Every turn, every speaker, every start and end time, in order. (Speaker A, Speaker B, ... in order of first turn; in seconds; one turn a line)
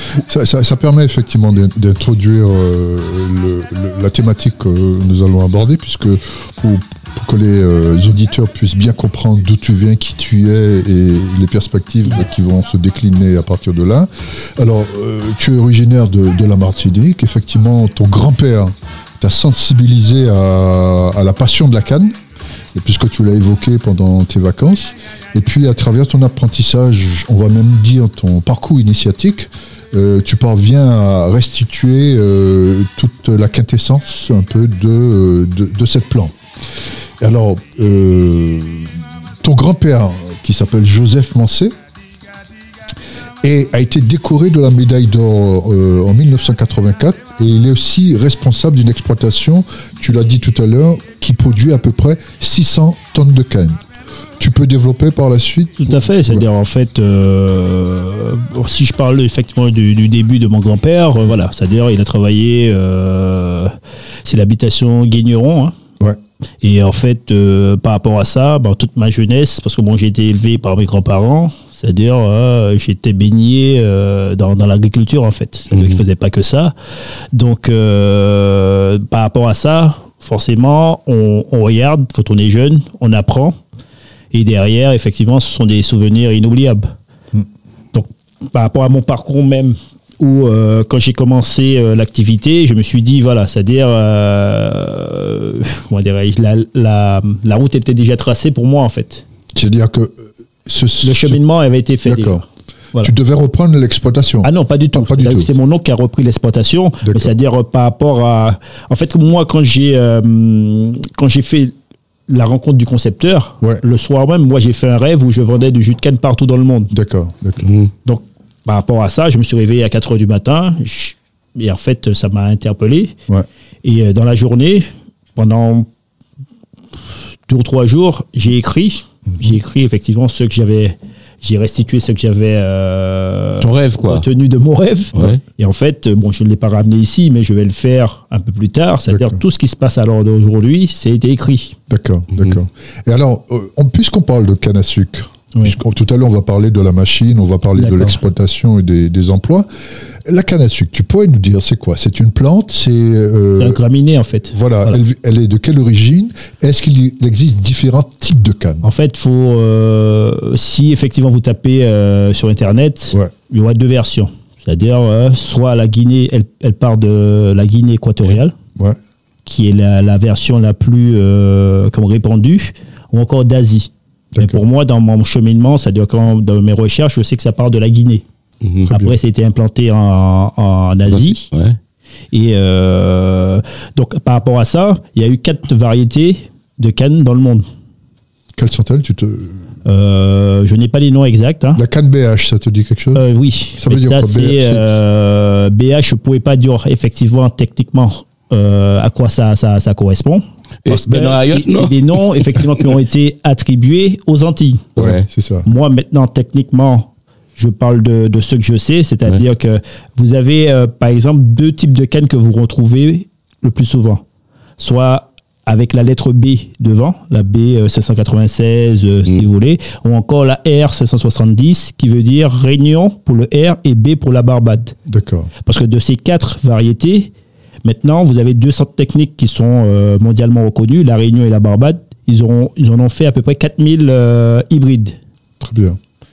Speaker A: 0.2-22.2
Speaker A: 22.8-36.4
Speaker A: 37.2-41.8
Speaker A: 43.4-53.8
Speaker A: 54.4-56.5
Speaker B: 55.8-63.7
Speaker B: 64.2-65.7
Speaker B: 66.6-76.7
Speaker C: 75.7-76.0
Speaker B: 77.3-83.5
Speaker B: 84.3-86.9
Speaker B: 87.9-99.2
Speaker A: 99.5-101.4
Speaker B: 101.0-102.4
Speaker A: 102.0-102.4
Speaker A: 103.0-105.5
Speaker B: 104.4-111.7
Speaker A: 107.0-107.3
Speaker B: 112.3-116.9
Speaker A: 116.9-117.7
Speaker C: 117.6-117.9
Speaker B: 118.0-123.2
Speaker B: 123.8-125.9
Speaker B: 127.5-141.8
Speaker C: 133.6-134.2
Speaker C: 135.2-135.4
Speaker A: 139.1-139.4
Speaker A: 141.9-153.8
Speaker B: 147.8-148.2
Speaker B: 153.6-155.0
Speaker A: 154.5-158.8
Speaker B: 158.8-168.5
Speaker B: 169.5-178.2
Speaker A: 174.3-174.6
Speaker C: 178.6-178.9
Speaker A: 178.8-179.2
Speaker B: 178.9-181.5
Speaker C: 181.1-181.8
Speaker B: 182.3-187.6
Speaker A: 188.5-189.7
Speaker B: 189.8-191.8
Speaker A: 191.8-194.9
Speaker B: 193.2-204.9
Speaker C: 200.8-202.7
Speaker C: 205.0-205.2
Speaker A: 205.0-205.7
Speaker B: 205.7-214.2
Speaker B: 214.8-224.9
Speaker A: 225.1-225.5
Speaker B: 225.7-227.3
Speaker B: 227.8-235.2
Speaker A: 235.6-236.0